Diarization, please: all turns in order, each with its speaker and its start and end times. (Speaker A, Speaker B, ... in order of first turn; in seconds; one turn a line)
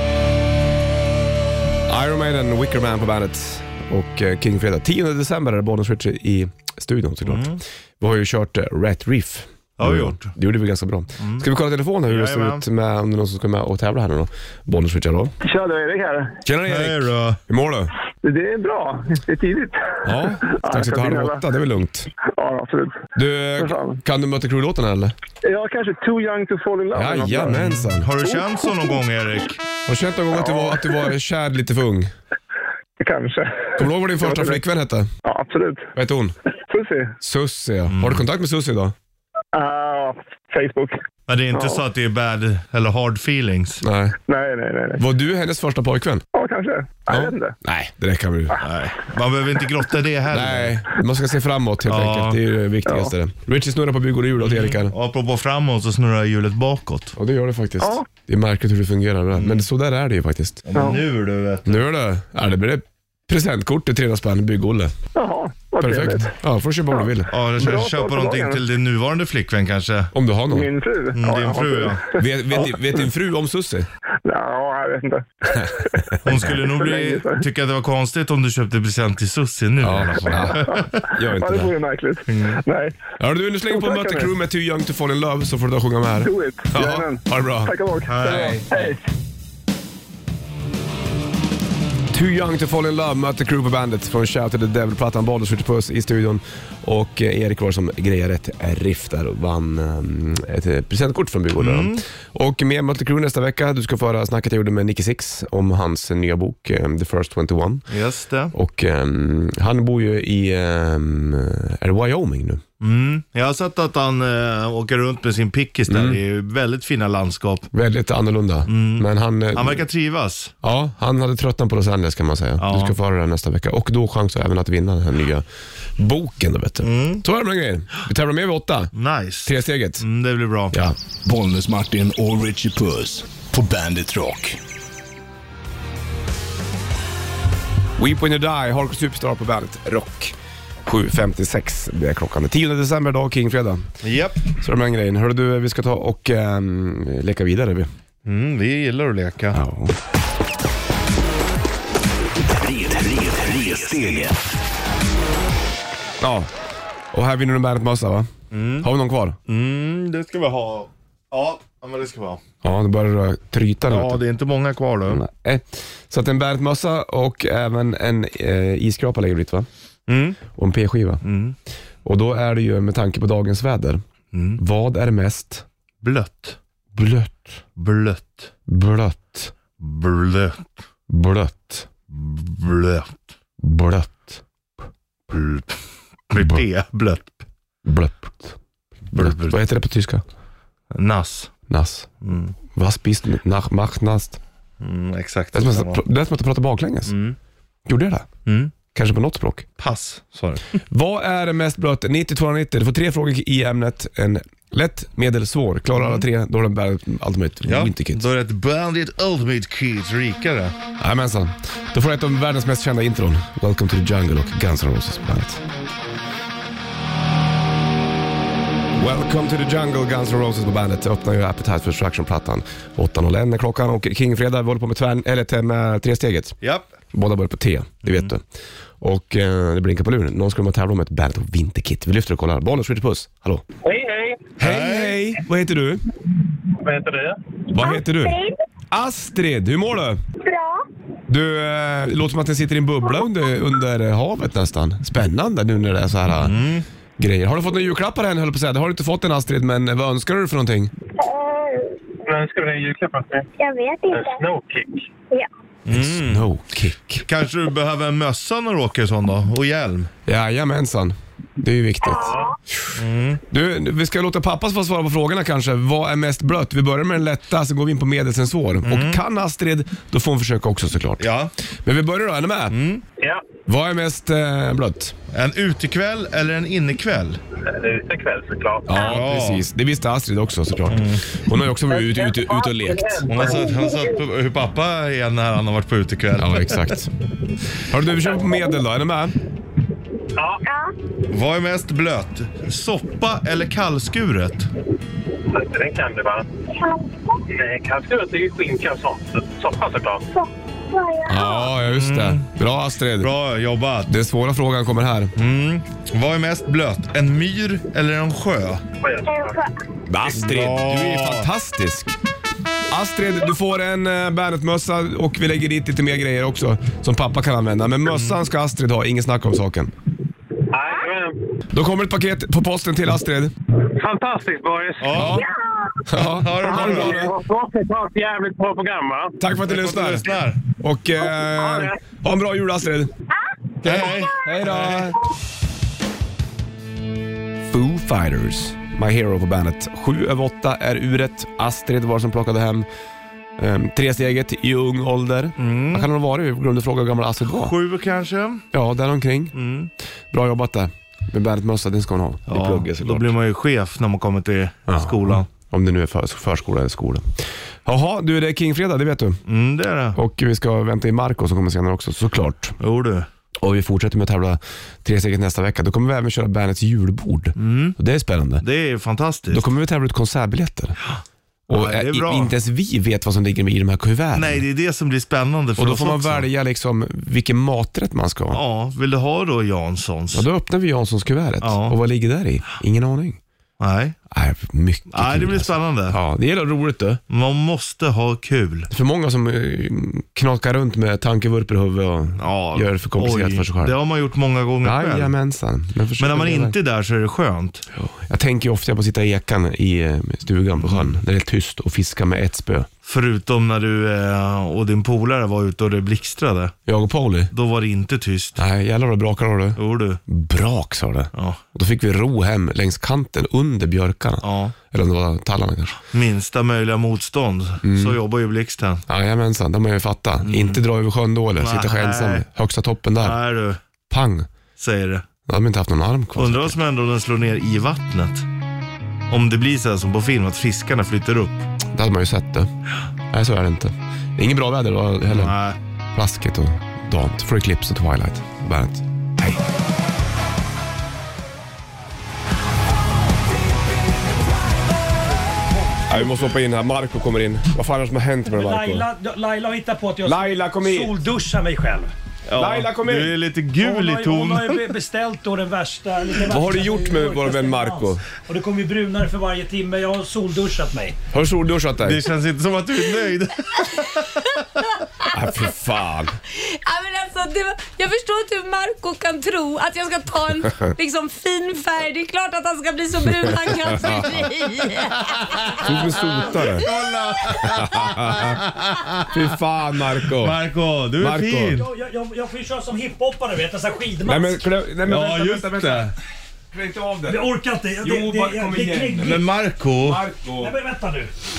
Speaker A: 1.9-15.3
Speaker B: 7.2-7.6
Speaker B: 9.8-10.3
Speaker B: 11.2-11.5
Speaker B: 12.1-12.6
Speaker C: 15.4-16.4
Speaker A: 16.4-17.9
Speaker B: 16.7-17.4
Speaker C: 18.2-21.4
Speaker A: 20.0-22.1
Speaker C: 22.3-23.0
Speaker A: 23.1-25.1
Speaker C: 23.6-24.0
Speaker C: 25.4-27.6
Speaker A: 26.9-28.1
Speaker B: 27.5-29.6
Speaker C: 28.2-28.9
Speaker A: 29.9-32.1
Speaker C: 30.3-31.1
Speaker C: 33.0-34.6
Speaker A: 33.8-35.1
Speaker C: 35.2-35.9
Speaker A: 36.0-36.3
Speaker C: 36.7-37.1
Speaker A: 37.2-38.9
Speaker B: 37.9-38.2
Speaker C: 39.5-41.0
Speaker B: 41.3-43.8
Speaker C: 41.5-41.8
Speaker A: 43.8-44.2
Speaker C: 44.3-45.0
Speaker A: 45.0-46.2
Speaker C: 46.3-47.5
Speaker A: 47.1-48.6
Speaker B: 48.6-50.8
Speaker A: 50.3-54.9
Speaker B: 51.9-52.4
Speaker C: 52.9-53.1
Speaker B: 54.4-57.1
Speaker A: 57.2-60.6
Speaker C: 57.8-58.0
Speaker B: 59.3-59.6
Speaker B: 60.6-61.8
Speaker C: 60.8-61.0
Speaker A: 61.6-64.9
Speaker C: 65.2-66.3
Speaker A: 65.8-67.3
Speaker C: 66.9-68.6
Speaker B: 67.3-70.1
Speaker A: 70.1-70.7
Speaker C: 70.5-73.0
Speaker B: 71.1-72.0
Speaker A: 72.2-73.9
Speaker C: 74.2-77.4
Speaker A: 75.5-76.5
Speaker B: 76.2-81.0
Speaker A: 79.8-81.7
Speaker C: 80.3-83.0
Speaker B: 82.3-82.6
Speaker A: 83.2-88.7
Speaker C: 83.7-84.3
Speaker C: 86.2-89.0
Speaker B: 88.0-88.8
Speaker A: 92.1-107.9
Speaker B: 101.6-102.0
Speaker B: 107.9-108.5
Speaker A: 108.5-112.6
Speaker B: 112.8-117.7
Speaker A: 115.9-116.2
Speaker A: 117.7-119.8
Speaker B: 118.7-120.5
Speaker A: 120.6-125.4
Speaker B: 122.6-123.0
Speaker A: 126.0-128.9
Speaker B: 126.8-127.2
Speaker B: 128.9-130.8
Speaker A: 129.4-130.0
Speaker D: 131.2-134.6
Speaker A: 138.0-143.9
Speaker B: 144.0-144.4
Speaker A: 144.6-147.9
Speaker B: 148.2-149.6
Speaker A: 149.5-149.9
Speaker D: 152.5-154.4
Speaker A: 156.2-156.5
Speaker A: 157.1-159.4
Speaker B: 158.5-158.9
Speaker B: 159.5-162.4
Speaker A: 162.6-164.2
Speaker B: 163.9-165.2
Speaker A: 165.1-169.7
Speaker B: 170.1-170.4
Speaker A: 170.5-171.2
Speaker B: 171.2-171.5
Speaker A: 172.0-174.0
Speaker B: 174.3-174.6
Speaker A: 174.6-175.6
Speaker B: 176.0-176.6
Speaker A: 176.9-177.6
Speaker B: 177.8-178.5
Speaker A: 178.7-179.5
Speaker B: 179.8-180.7
Speaker A: 181.1-181.9
Speaker B: 182.1-183.2
Speaker A: 183.6-184.4
Speaker B: 185.3-185.8
Speaker B: 186.3-187.4
Speaker A: 186.3-186.6
Speaker A: 187.8-188.6
Speaker A: 189.1-190.2
Speaker B: 189.1-189.6
Speaker B: 190.9-191.5
Speaker A: 191.7-192.1
Speaker B: 192.2-192.5
Speaker A: 192.7-194.4
Speaker B: 194.8-196.0
Speaker A: 195.5-197.1
Speaker B: 197.1-197.4
Speaker A: 197.8-198.3
Speaker B: 198.4-198.7
Speaker A: 198.9-199.7
Speaker B: 199.8-200.8
Speaker A: 200.9-208.2
Speaker B: 205.9-206.2
Speaker B: 207.7-210.7
Speaker A: 211.0-215.6
Speaker A: 218.9-226.6
Speaker B: 226.6-226.9
Speaker A: 227.1-228.4
Speaker B: 228.0-228.3
Speaker A: 229.0-233.6
Speaker E: 233.8-234.5
Speaker A: 234.6-236.0
Speaker B: 234.6-235.2
Speaker E: 236.8-237.4
Speaker A: 237.7-238.4
Speaker F: 237.7-238.6
Speaker A: 238.9-240.2
Speaker F: 240.4-240.8
Speaker A: 241.3-246.6
Speaker B: 246.4-246.8
Speaker A: 247.2-250.9
Speaker F: 251.2-251.9
Speaker E: 252.2-253.5
Speaker F: 253.6-254.4
Speaker E: 254.1-255.1
Speaker B: 255.8-256.5
Speaker A: 255.9-257.2
Speaker B: 257.2-260.1
Speaker A: 260.2-262.9
Speaker F: 262.1-262.4
Speaker E: 262.1-262.5
Speaker B: 262.9-263.4
Speaker A: 263.5-271.3
Speaker B: 268.8-269.2
Speaker B: 271.2-271.5
Speaker A: 271.8-272.8
Speaker B: 272.7-273.0
Speaker A: 273.7-275.1
Speaker B: 275.3-277.4
Speaker E: 277.6-279.1
Speaker A: 278.9-283.2
Speaker B: 278.9-279.6
Speaker B: 280.9-281.2
Speaker E: 281.9-283.9
Speaker B: 283.3-286.9
Speaker F: 283.5-284.0
Speaker A: 286.4-287.1
Speaker A: 287.9-289.3
Speaker E: 290.4-290.6
Speaker F: 290.6-290.9
Speaker B: 291.3-294.7
Speaker E: 295.5-296.4
Speaker F: 296.7-297.4
Speaker E: 297.5-300.2
Speaker F: 300.3-301.7
Speaker A: 301.3-303.3
Speaker B: 301.9-302.5
Speaker B: 303.2-304.1
Speaker A: 304.1-305.3
Speaker B: 305.4-308.8
Speaker E: 309.0-309.6
Speaker F: 309.2-309.7
Speaker A: 310.1-312.1
Speaker B: 310.3-311.5
Speaker A: 312.9-319.9
Speaker B: 318.1-318.4
Speaker E: 320.7-321.4
Speaker A: 321.7-323.5
Speaker E: 324.0-325.2
Speaker B: 325.0-325.4
Speaker A: 325.1-325.4
Speaker A: 326.1-327.3
Speaker B: 326.1-327.3
Speaker E: 326.6-329.3
Speaker A: 329.4-330.3
Speaker B: 329.6-330.6
Speaker A: 330.8-333.1
Speaker E: 331.3-332.0
Speaker A: 333.8-335.2
Speaker B: 333.8-335.1
Speaker A: 337.7-342.9
Speaker A: 343.6-347.7
Speaker B: 345.6-346.1
Speaker B: 347.4-348.6
Speaker A: 348.7-349.6
Speaker B: 349.5-349.9
Speaker A: 350.3-353.3
Speaker B: 352.5-355.5
Speaker A: 354.9-359.4
Speaker B: 359.5-360.2
Speaker A: 360.1-362.8
Speaker B: 362.8-363.3
Speaker A: 363.6-368.6
Speaker B: 367.6-368.0
Speaker B: 368.6-369.6
Speaker A: 369.5-371.0
Speaker B: 371.1-372.5
Speaker A: 371.7-374.6
Speaker B: 374.3-376.5
Speaker A: 375.8-378.6
Speaker B: 378.5-380.4
Speaker A: 380.3-383.4
Speaker B: 381.6-382.0
Speaker B: 383.8-384.2
Speaker A: 384.3-387.2
Speaker B: 385.1-386.2
Speaker B: 387.3-388.9
Speaker A: 388.9-393.9
Speaker B: 392.4-395.3
Speaker A: 394.8-396.7
Speaker B: 396.2-397.8
Speaker A: 397.9-402.9
Speaker B: 400.8-401.1
Speaker B: 403.1-406.7
Speaker A: 406.9-407.5
Speaker B: 407.5-408.6
Speaker A: 408.6-416.0
Speaker B: 409.8-410.2
Speaker B: 411.3-411.6
Speaker B: 414.4-414.8
Speaker B: 416.1-419.0
Speaker A: 417.8-418.2
Speaker A: 419.1-423.4
Speaker B: 420.4-420.8
Speaker B: 421.6-422.4
Speaker B: 423.2-423.8
Speaker A: 424.1-424.5
Speaker B: 424.8-425.2
Speaker A: 425.5-426.8
Speaker B: 426.4-428.4
Speaker B: 429.3-431.7
Speaker A: 431.9-432.7
Speaker A: 433.3-435.5
Speaker B: 435.3-435.8
Speaker A: 436.1-439.6
Speaker A: 446.1-449.1
Speaker G: 448.5-452.1
Speaker A: 450.2-451.1
Speaker B: 452.5-454.9
Speaker A: 452.6-453.4
Speaker G: 453.8-461.2
Speaker A: 456.4-458.2
Speaker A: 461.3-462.2
Speaker B: 462.0-464.4
Speaker A: 465.3-466.4
Speaker F: 466.5-475.8
Speaker A: 473.4-474.5
Speaker A: 475.8-476.9
Speaker B: 476.6-479.2
Speaker F: 476.8-477.6
Speaker A: 477.6-478.6
Speaker A: 479.3-480.6
Speaker B: 480.2-481.9
Speaker A: 481.2-481.8
Speaker G: 481.7-484.6
Speaker A: 484.2-486.1
Speaker B: 485.0-486.1
Speaker A: 486.7-490.7
Speaker G: 487.2-489.4
Speaker B: 489.2-490.2
Speaker G: 490.5-491.3